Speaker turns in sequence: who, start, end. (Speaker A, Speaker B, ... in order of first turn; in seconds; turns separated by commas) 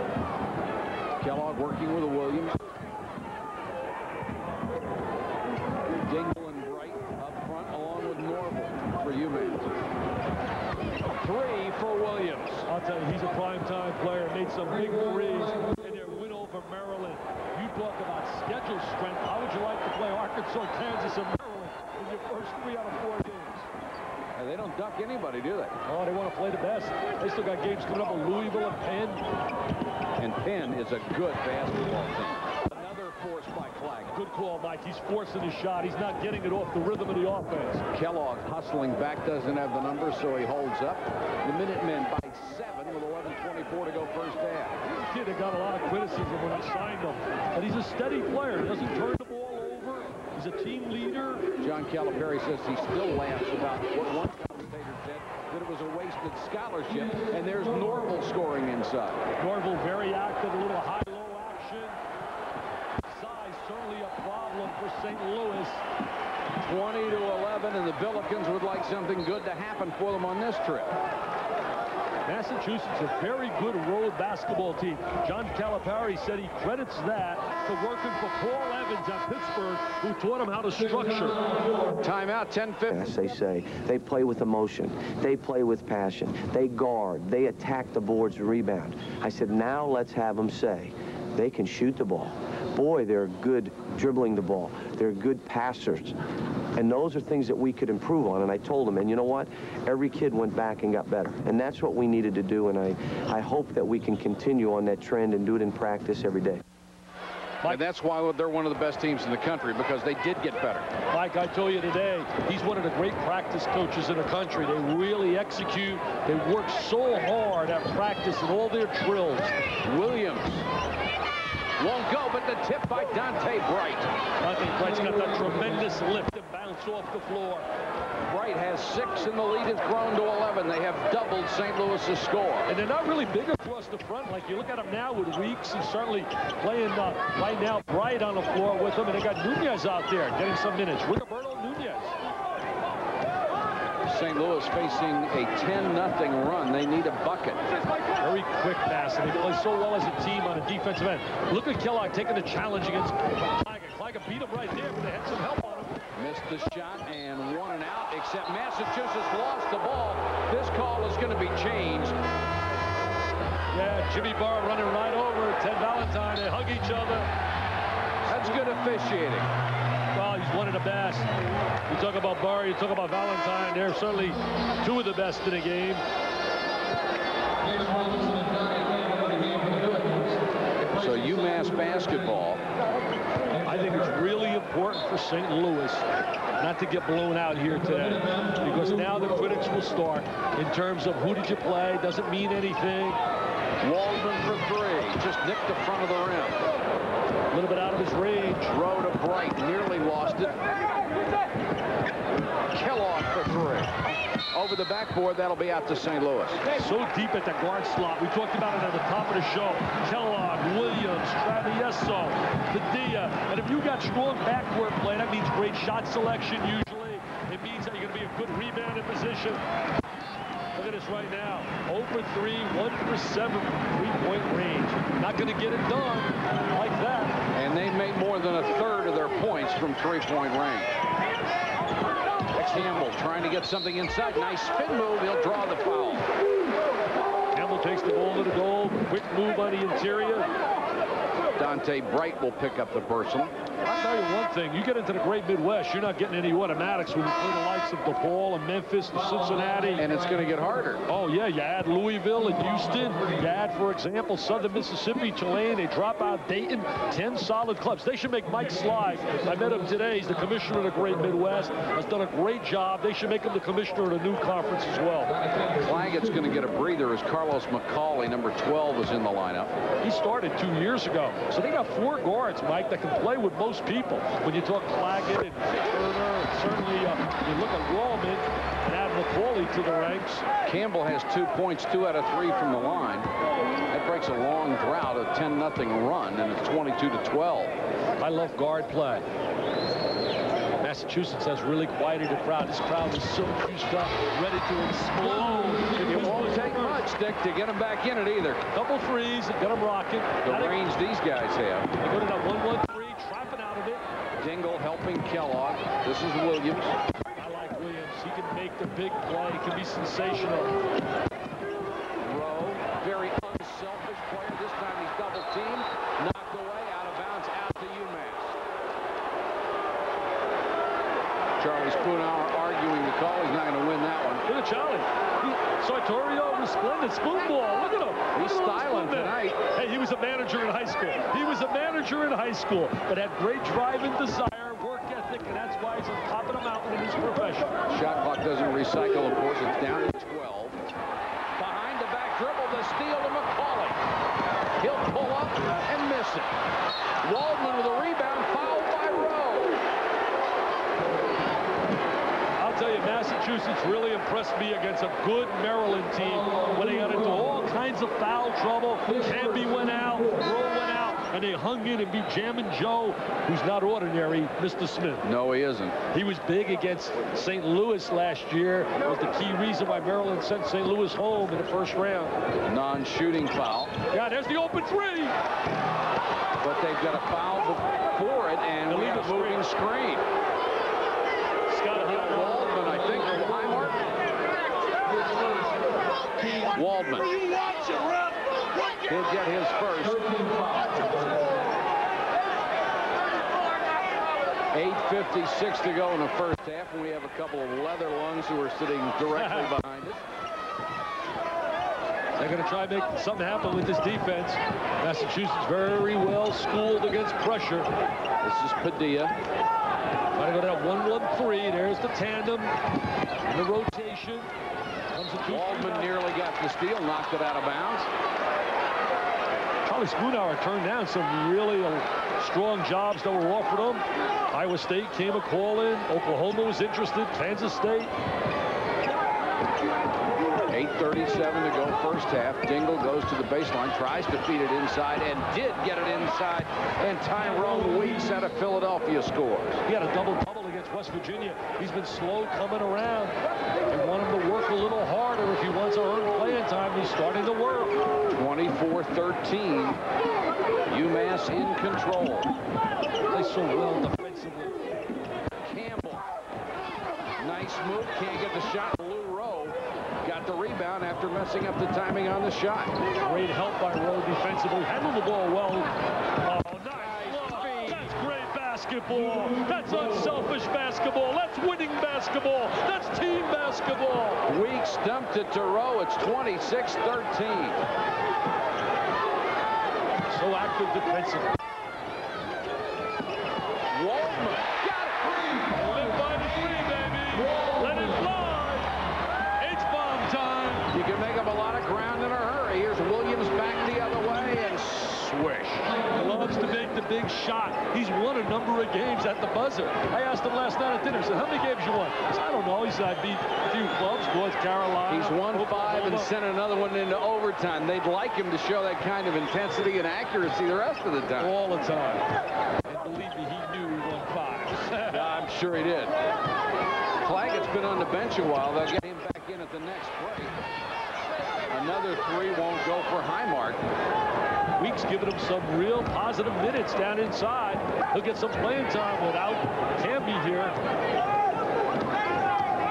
Speaker A: 1.2-2.5, Speaker A: 6.0-9.7, Speaker A: 11.1-12.7, Speaker B: 12.7-23.7, Speaker A: 24.4-25.7, Speaker B: 25.9-29.2, Speaker A: 30.2-34.1, Speaker B: 34.1-37.8, Speaker A: 37.9-44.8, Speaker B: 44.8-51.5, Speaker A: 51.6-59.2, Speaker B: 59.4-62.0, Speaker B: 63.1-65.8, Speaker A: 66.6-70.9, Speaker B: 72.3-81.4, Speaker A: 82.0-82.9, Speaker C: 82.9-96.2, Speaker C: 96.8-106.6, Speaker A: 107.7-110.9, Speaker B: 111.1-119.5, Speaker A: 119.8-120.7, Speaker A: 121.8-124.1, Speaker B: 124.4-127.7, Speaker A: 128.3-132.7, Speaker B: 132.7-142.1, Speaker A: 144.1-147.6, Speaker B: 148.2-156.0, Speaker A: 156.2-162.2, Speaker B: 163.7-167.3, Speaker A: 168.3-169.5, Speaker B: 170.1-171.3, Speaker B: 171.9-176.0, Speaker A: 180.9-182.6, Speaker B: 183.6-186.1, Speaker B: 186.6-193.2, Speaker A: 193.8-196.7, Speaker B: 197.5-198.7, Speaker A: 198.7-200.7, Speaker A: 202.7-206.6, Speaker B: 206.7-219.6, Speaker B: 220.8-227.4, Speaker A: 227.5-230.9, Speaker A: 232.6-236.3, Speaker B: 237.6-240.5, Speaker A: 241.6-243.5, Speaker B: 243.8-250.0, Speaker A: 250.0-251.0, Speaker B: 251.1-265.3, Speaker A: 265.8-269.7, Speaker B: 270.0-280.5, Speaker A: 280.6-283.3, Speaker A: 283.9-287.7, Speaker B: 288.2-289.2, Speaker B: 290.8-297.0, Speaker A: 296.1-298.7, Speaker B: 298.8-300.8, Speaker A: 300.4-301.9, Speaker B: 302.0-304.0, Speaker A: 304.4-306.9, Speaker B: 307.4-310.8, Speaker A: 312.2-318.6, Speaker A: 321.6-324.5, Speaker B: 324.5-337.8, Speaker A: 328.3-329.6, Speaker A: 337.9-340.8, Speaker A: 341.6-344.0, Speaker A: 344.8-346.5, Speaker A: 347.2-349.8, Speaker B: 352.6-365.2, Speaker A: 365.2-366.0, Speaker B: 366.1-372.4, Speaker A: 372.7-373.9, Speaker B: 374.1-375.3, Speaker A: 376.6-380.2, Speaker B: 378.9-379.6, Speaker B: 381.7-382.6, Speaker A: 382.0-384.1, Speaker A: 386.7-387.3, Speaker A: 389.1-390.5, Speaker A: 394.7-400.2, Speaker B: 399.3-399.7, Speaker B: 402.4-407.9, Speaker A: 408.4-409.3, Speaker B: 410.4-412.7, Speaker B: 413.5-414.5, Speaker B: 415.1-416.1, Speaker A: 415.5-418.1, Speaker B: 419.9-428.1, Speaker A: 430.7-439.8, Speaker B: 439.9-443.4, Speaker B: 443.9-448.0, Speaker A: 448.3-450.0, Speaker A: 450.9-452.5, Speaker B: 453.3-454.9, Speaker A: 455.6-456.2, Speaker A: 457.4-463.0, Speaker B: 463.2-474.4, Speaker A: 466.9-468.1, Speaker A: 474.5-477.8, Speaker B: 480.3-481.5, Speaker A: 483.9-485.6, Speaker B: 485.7-488.9, Speaker B: 489.6-490.9, Speaker A: 490.9-496.0, Speaker B: 496.1-506.3, Speaker A: 505.1-511.5, Speaker B: 511.4-512.2, Speaker B: 512.9-515.3, Speaker A: 515.1-516.1, Speaker A: 517.2-520.5, Speaker A: 521.7-523.8, Speaker B: 524.8-530.8